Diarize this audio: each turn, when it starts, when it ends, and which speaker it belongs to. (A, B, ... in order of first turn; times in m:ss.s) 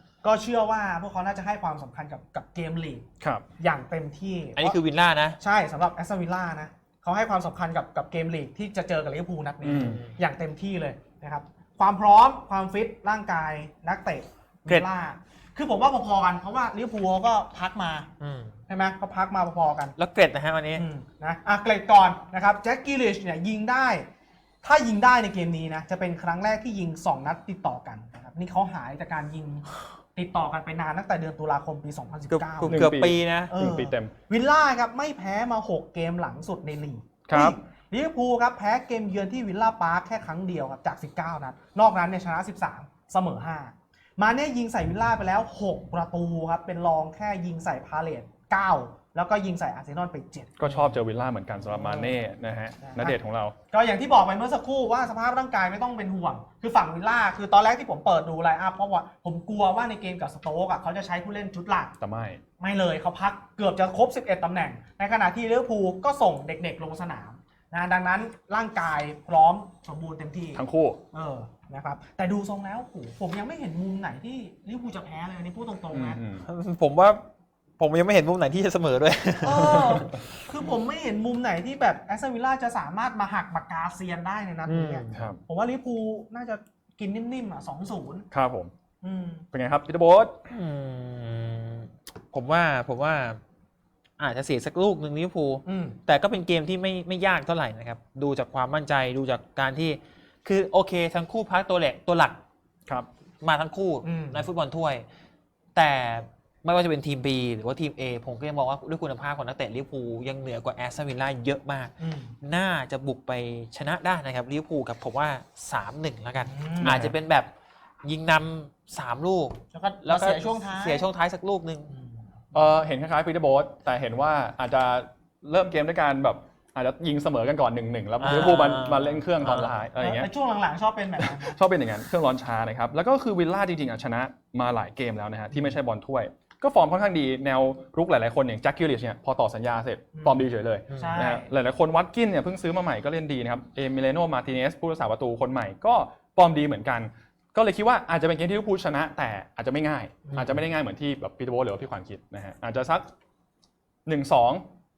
0:00.2-0:03.0 A
0:03.2-0:03.4 B
0:03.6-0:04.8 A
0:04.6-0:05.4 C
0:05.4-0:18.1 A
0:09.6-0:10.0 B
0:09.6-0:10.2 C
0:18.2-0:18.6 C
0:18.7-0:20.0 A
0:20.0-0:20.8 C
0:20.8-0:24.1 A
0:24.6-0:33.0 A
0:32.3-0:33.5 C
0:32.6-0:34.1 B
0:33.5-0:50.7 A
0:37.3-0:37.6 B
0:50.6-0:53.6 B
0:51.7-0:52.1 A
0:52.8-0:53.2 A
0:53.7-1:02.0 A
1:02.0-1:02.4 B
1:02.6-1:10.6 A
1:10.6-1:11.0 B
1:11.1-1:16.2 A
1:15.9-1:16.5 B
1:16.4-1:17.2 C
1:17.8-1:20.3 C
1:19.4-1:28.3 A
1:24.7-1:25.3 C
1:25.1-1:25.4 B
1:28.3-1:28.7 B
1:29.0-1:29.5 A
1:29.5-1:30.4 B
1:30.5-1:33.4 C
1:34.2-1:42.4 C
1:35.7-1:36.0 A
1:43.4-1:45.0 C
1:44.0-1:44.5 A
1:45.8-1:57.5 C
1:52.0-1:52.4 A
1:56.5-1:57.0 A
1:56.8-1:57.2 B
1:58.0-2:01.9 C
1:59.7-2:01.1 A
2:01.9-2:02.2 A
2:02.5-2:10.3 B
2:08.2-2:09.8 C
2:10.0-2:11.6 A
2:11.4-2:33.1 B
2:20.2-2:21.5 A
2:20.9-2:21.3 C
2:34.1-2:34.6 B